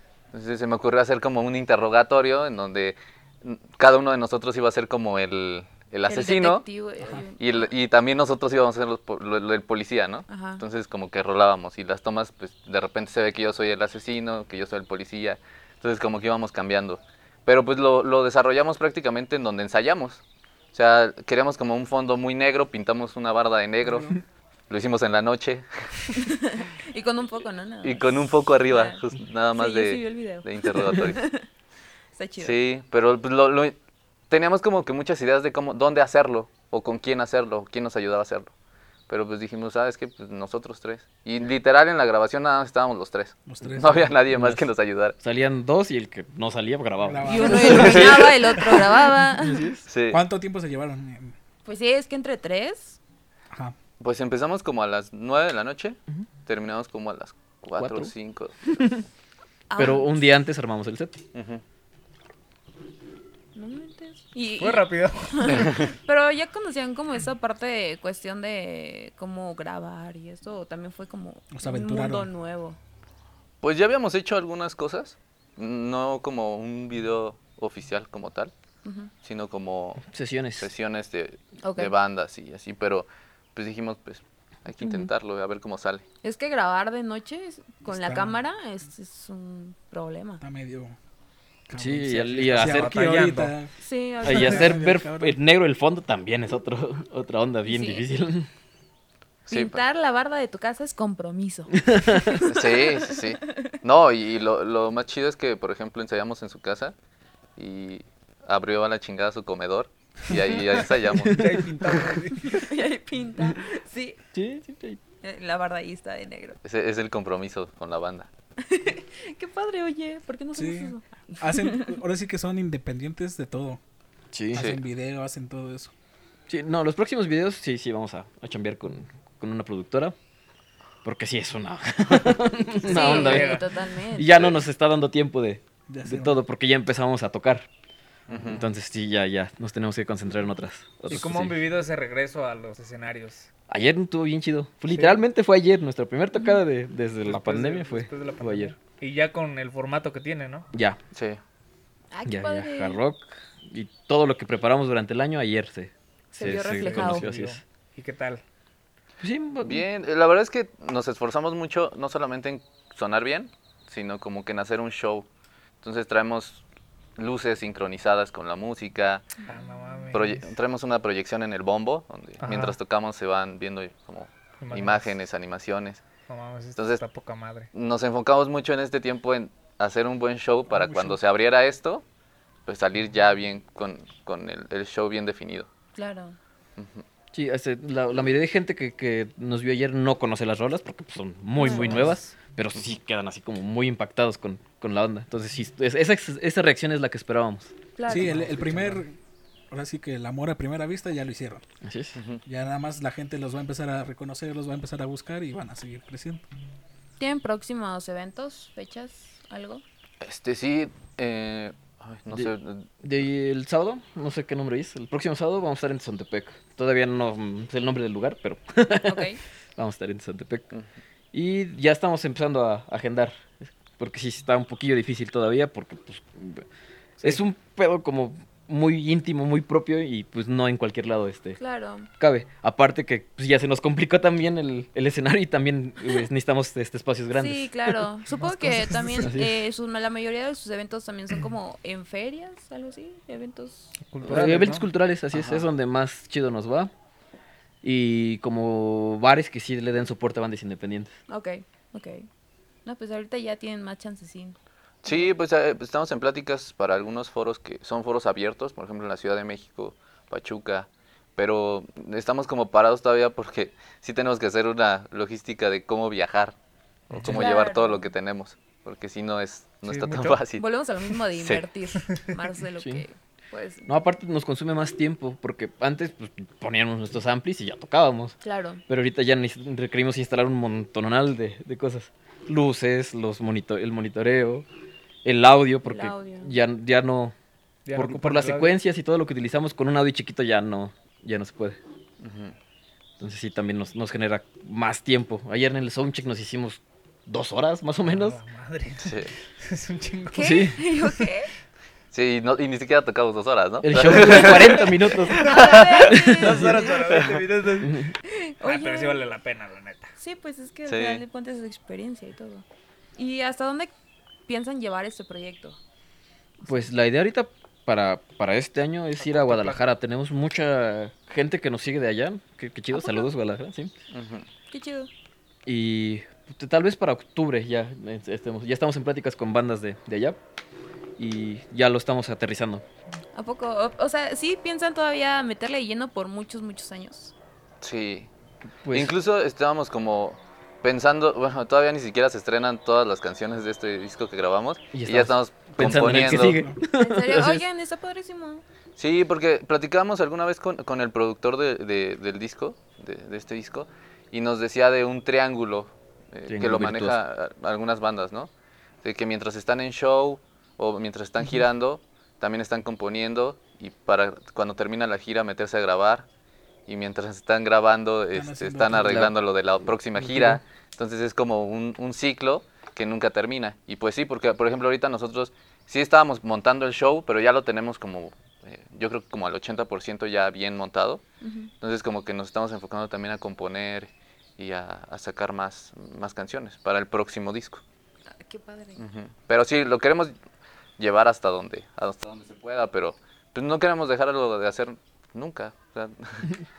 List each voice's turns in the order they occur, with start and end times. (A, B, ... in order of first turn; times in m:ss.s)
0:00.3-0:06.6 A
0:06.1-0:07.7 B
0:07.4-0:20.2 A
0:10.3-0:10.6 B
0:20.7-0:26.2 A
0:23.8-0:24.2 C
0:26.2-0:29.0 B
0:27.8-0:31.2 A
0:29.5-0:31.4 B
0:32.2-0:32.5 B
0:32.4-0:33.8 A
0:34.3-0:38.5 A
0:39.1-0:45.2 A
0:43.4-0:44.7 C
0:45.2-0:49.8 D
0:47.0-0:48.2 C
0:47.2-0:49.6 B
0:47.6-0:48.3 A
0:49.9-0:50.2 A
0:50.1-0:51.3 C
0:51.6-0:53.0 B
0:53.5-0:53.8 C
0:54.0-0:58.6 A
0:57.8-0:58.1 D
0:59.7-1:00.2 B
0:59.8-1:01.2 D
1:01.3-1:01.6 A
1:03.5-1:12.8 B
1:04.6-1:05.8 E
1:11.5-1:12.3 C
1:13.6-1:18.5 A
1:18.8-1:19.1 B
1:19.2-1:20.1 A
1:20.1-1:20.7 D
1:20.6-1:26.0 A
1:21.6-1:21.9 B
1:26.2-1:30.4 B
1:27.9-1:28.4 C
1:30.4-1:31.0 C
1:31.7-1:33.7 C
1:31.7-1:33.0 D
1:32.5-1:33.5 E
1:33.8-1:34.8 B
1:34.2-1:35.4 C
1:34.2-1:38.5 D
1:37.6-1:38.0 B
1:39.5-1:39.8 A
1:39.5-1:43.7 B
1:41.8-1:42.4 D
1:42.4-1:46.9 A
1:47.6-1:52.1 A
1:51.2-1:52.7 E
1:52.4-1:54.2 B
1:54.3-1:55.0 D
1:55.2-1:56.6 B
1:56.6-1:58.3 A
1:58.6-2:02.0 B
2:00.5-2:03.8 C
2:04.3-2:04.7 D
2:04.5-2:05.9 C
2:06.5-2:10.1 D
2:11.0-2:13.6 D
2:12.8-2:13.7 E
2:12.8-2:14.3 B
2:14.2-2:17.7 D
2:14.3-2:14.6 A
2:15.9-2:16.4 C
2:18.3-2:18.6 A
2:18.4-2:21.6 D
2:21.1-2:23.5 E
2:23.7-2:28.8 D
2:24.9-2:25.2 E
2:26.3-2:26.6 B
2:27.2-2:30.7 E
2:30.7-2:31.0 D
2:31.1-2:31.4 A
2:32.1-2:33.0 B
2:32.3-2:37.6 D
2:36.3-2:37.3 B
2:36.5-2:38.4 E
2:39.2-2:39.8 D
2:39.6-2:45.3 A
2:45.8-2:46.6 A
2:47.2-2:49.2 A
2:49.4-2:50.4 E
2:50.1-2:56.0 A
2:52.4-2:52.8 E
2:54.6-2:55.1 E
2:56.2-2:57.7 E
2:56.8-2:57.0 A
2:57.7-3:02.0 A
3:00.7-3:01.1 C
3:02.6-3:05.7 A
3:06.0-3:06.4 B
3:06.8-3:07.0 A
3:07.3-3:19.0 D
3:11.6-3:12.0 B
3:11.8-3:12.1 E
3:18.0-3:18.4 B
3:18.1-3:19.2 C
3:19.7-3:21.6 C
3:21.8-3:22.2 D
3:22.2-3:22.4 A
3:22.4-3:26.4 C
3:27.2-3:29.8 B
3:30.2-3:32.9 A
3:33.0-3:40.7 D
3:39.0-3:39.4 B
3:41.3-3:46.6 D
3:47.2-3:51.6 D
3:51.6-3:52.1 B
3:52.2-3:57.9 D
3:57.3-4:03.9 B
3:58.9-3:59.6 D
4:04.0-4:04.9 E
4:04.2-4:06.9 D
4:07.8-4:11.1 D
4:11.3-4:12.3 B
4:12.8-4:15.3 B
4:15.0-4:26.6 A
4:27.1-4:30.6 A
4:27.3-4:28.1 B
4:29.8-4:30.4 E
4:30.6-4:34.0 B
4:31.3-4:31.6 A
4:32.8-4:33.0 D
4:33.9-4:44.6 D
4:38.4-4:38.8 B
4:45.2-4:47.3 D
4:45.8-4:46.5 B
4:47.8-4:48.8 E
4:47.9-4:51.8 D
4:52.2-4:52.5 A
4:53.2-4:58.4 D
4:58.1-5:01.2 E
4:59.0-4:59.3 A
5:00.3-5:01.5 B
5:00.4-5:00.8 D
5:02.1-5:06.3 A
5:03.8-5:06.9 D
5:05.4-5:08.1 E
5:05.4-5:07.1 B
5:07.1-5:07.4 A
5:07.8-5:08.1 D
5:08.2-5:09.2 B
5:08.6-5:10.1 E
5:10.2-5:12.6 B
5:10.9-5:11.2 A
5:13.2-5:13.9 B
5:14.5-5:15.8 B
5:16.6-5:23.9 D
5:19.2-5:19.8 E
5:22.9-5:23.3 B
5:24.1-5:24.5 A
5:24.7-5:25.1 B
5:25.6-5:30.4 D
5:31.2-5:32.8 D
5:33.3-5:37.3 B
5:37.8-5:38.3 A
5:38.8-5:39.1 D
5:38.9-5:46.6 A
5:44.9-5:47.6 D
5:46.1-5:46.8 C
5:46.9-5:48.6 B
5:49.0-5:58.5 A
5:56.5-5:57.2 D
5:59.0-6:06.3 A
6:06.9-6:21.2 A
6:08.3-6:09.3 C
6:09.0-6:09.3 D
6:10.2-6:10.6 D
6:21.4-6:21.7 B
6:21.8-6:27.8 A
6:28.3-6:29.0 B
6:29.0-6:30.3 A
6:31.0-6:36.5 A